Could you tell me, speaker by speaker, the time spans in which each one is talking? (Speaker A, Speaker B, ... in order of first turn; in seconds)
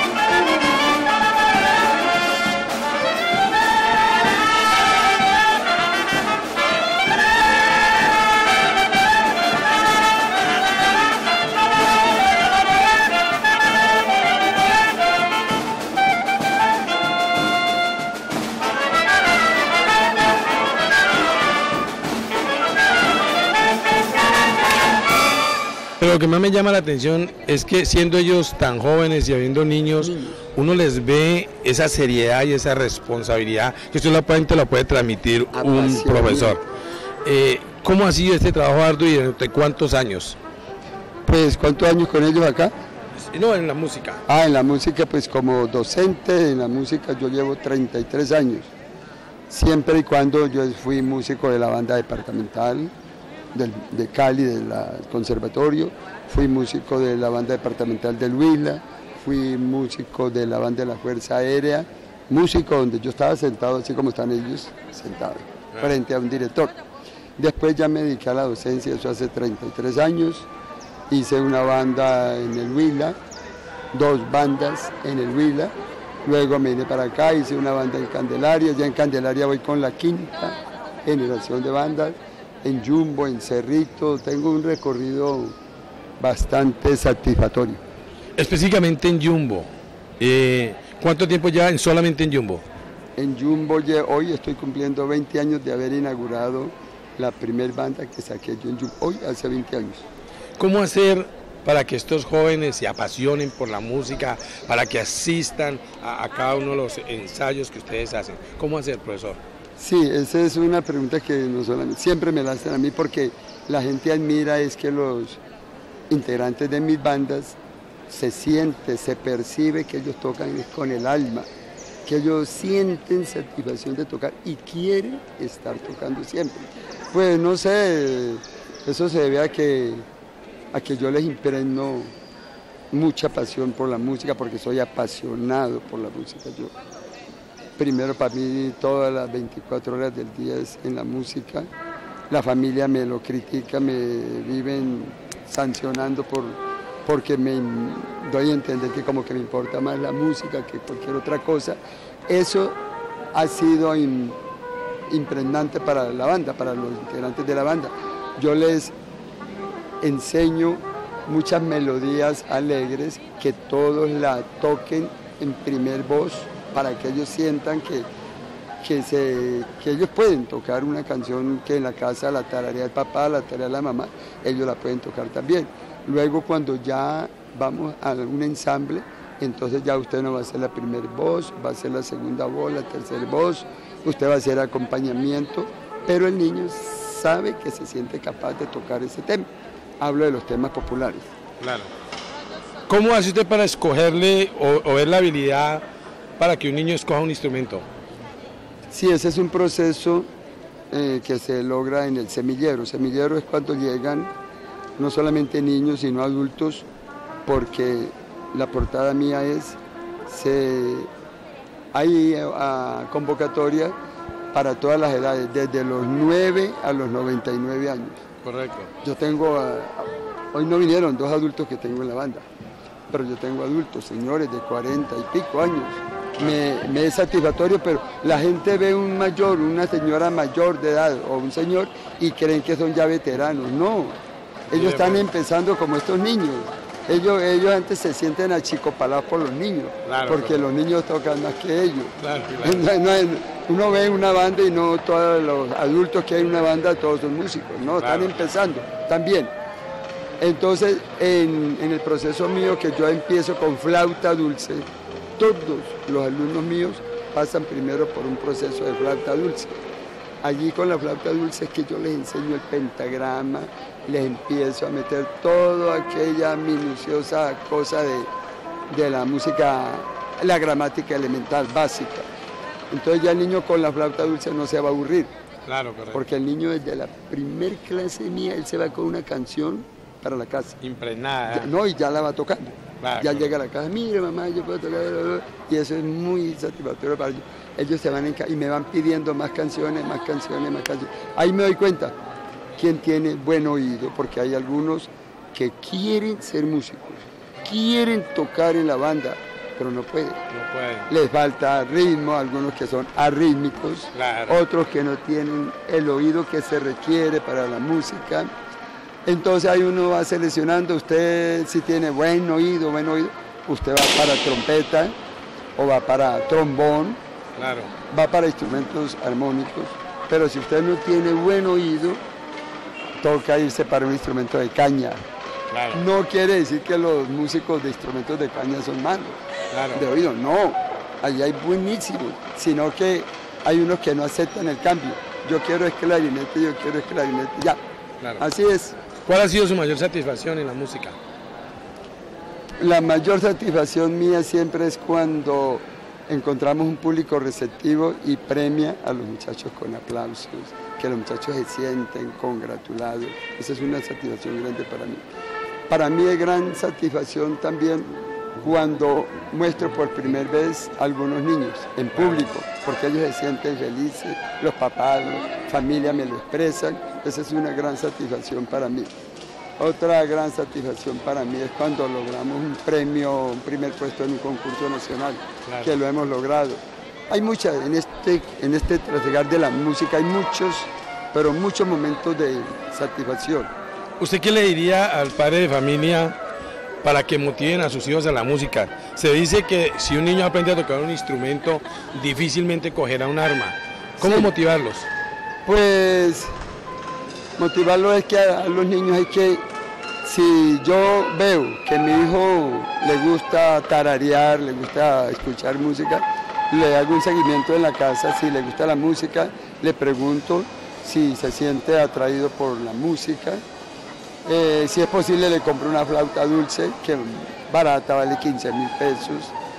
Speaker A: 26.0-36.6, 37.2-40.4, 43.2-44.2, 88.4-89.7, 90.2-92.6, 100.6-109.4, 191.6-191.9, 192.9-195.8, 196.4-197.8, 218.4-218.9, 234.7-235.3, 240.1-240.6, 242.2-242.9, 248.0-248.4, 275.7-276.2, 280.8-281.7, 283.0-283.5, 300.5-301.1, 304.1-304.6, 317.6-317.9, 325.7-326.0, 329.7-330.1, 339.3-341.1, 384.2-386.4, 387.0-395.1
Speaker B: 30.0-30.4, 35.5-36.6, 41.3-42.7, 44.3-48.7, 49.5-52.9, 53.5-66.8, 67.4-70.5, 71.1-73.2, 73.9-85.6, 86.2-87.8, 93.2-100.0, 109.8-115.4, 116.1-121.5, 122.0-130.1, 130.7-132.1, 132.9-136.7, 137.8-141.7, 142.3-152.8, 153.3-154.4, 155.1-158.9, 160.0-168.1, 168.8-189.5, 190.0-191.3, 198.9-200.3, 200.9-204.3, 205.0-206.9, 207.4-211.1, 211.9-214.0, 214.5-218.2, 219.0-222.4, 223.1-234.2, 234.7-249.5, 250.4-259.8, 260.4-268.3, 268.9-272.3, 272.9-275.3, 276.1-280.8, 281.5-292.1, 292.8-300.4, 301.1-308.5, 309.3-315.1, 315.8-317.2, 318.1-322.2, 323.2-325.2, 325.9-329.4, 329.9-337.8, 338.4-339.0, 342.8-355.2, 355.9-369.1, 369.8-383.7, 394.2-394.5, 395.6-396.5, 397.6-399.7, 400.2-413.6, 414.5-419.6